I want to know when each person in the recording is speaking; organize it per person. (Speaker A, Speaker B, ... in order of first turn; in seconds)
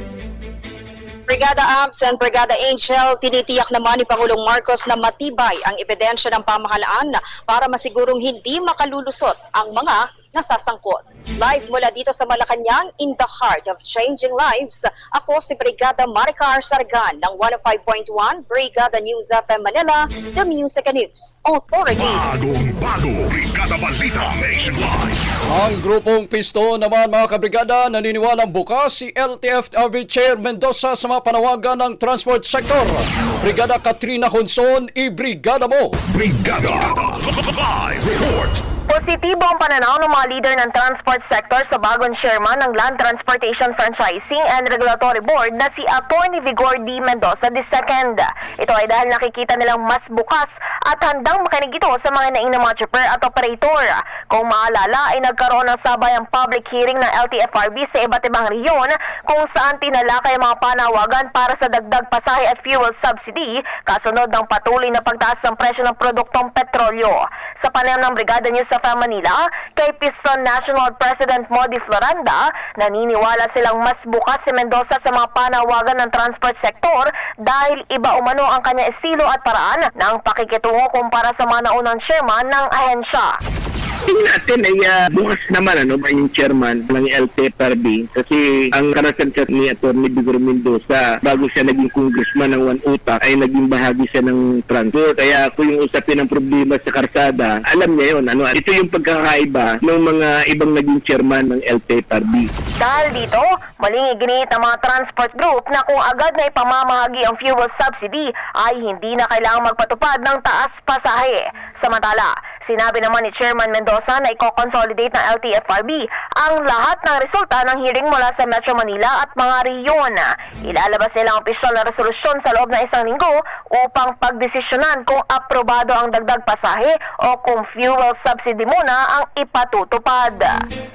Speaker A: 1.3-22.2
Speaker B: 21.9-25.2, 36.1-38.6
Speaker C: 25.5-36.0
Speaker D: 38.9-83.3, 102.8-130.6
Speaker E: 84.1-102.5